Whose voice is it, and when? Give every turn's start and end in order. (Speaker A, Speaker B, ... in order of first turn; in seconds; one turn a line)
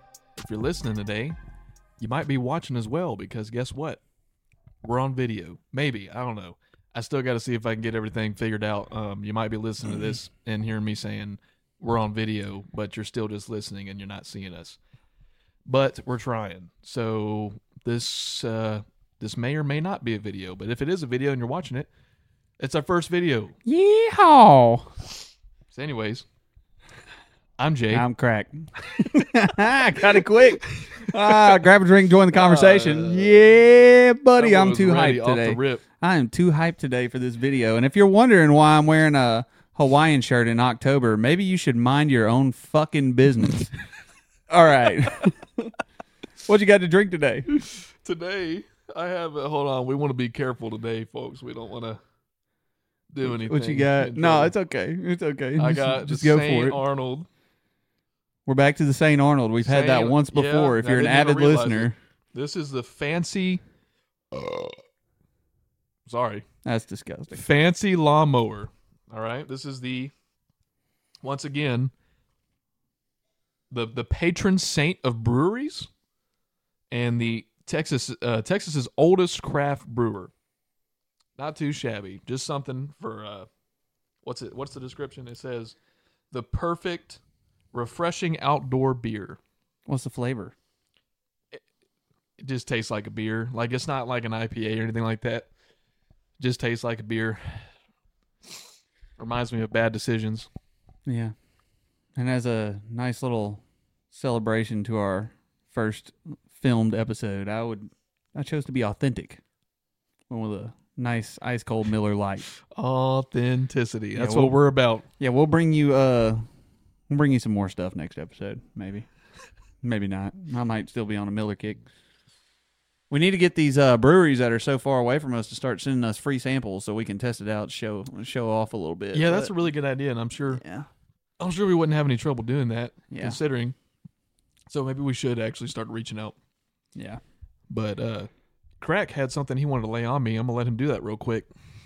Speaker A: 0.4-1.4
Speaker A: 2.0-4.0
Speaker A: 4.8-14.8
Speaker A: 15.7-21.9
Speaker A: 22.6-23.5
Speaker B: 23.6-24.9
Speaker A: 25.7-26.2
Speaker A: 27.6-28.1
Speaker B: 27.9-43.7
Speaker A: 30.8-31.6
Speaker A: 32.3-33.6
Speaker A: 34.4-35.8
Speaker B: 44.5-45.7
Speaker B: 46.4-47.5
Speaker A: 47.5-52.0
Speaker A: 53.1-54.5
Speaker B: 53.2-56.8
Speaker A: 55.6-57.3
Speaker B: 58.5-61.9
Speaker A: 59.6-63.6
Speaker A: 66.0-66.4
Speaker B: 66.6-67.4
Speaker A: 67.3-70.1
Speaker A: 71.2-71.9
Speaker A: 73.7-75.9
Speaker A: 76.9-80.3
Speaker A: 81.3-83.5
Speaker A: 84.2-85.8
Speaker A: 86.3-87.2
Speaker A: 87.7-89.4
Speaker B: 89.9-90.5
Speaker A: 92.4-95.5
Speaker A: 96.4-97.7
Speaker A: 99.2-100.5
Speaker B: 101.0-101.3
Speaker B: 102.2-109.4
Speaker B: 110.3-112.5
Speaker A: 112.7-115.0
Speaker B: 114.2-114.5
Speaker B: 115.2-116.4
Speaker B: 117.1-119.1
Speaker B: 119.8-121.8
Speaker B: 123.1-129.6
Speaker A: 129.1-130.6
Speaker B: 130.5-130.9
Speaker A: 131.4-133.8
Speaker B: 133.1-133.4
Speaker A: 134.7-136.3
Speaker B: 136.9-137.2
Speaker A: 137.7-138.3
Speaker A: 138.8-141.5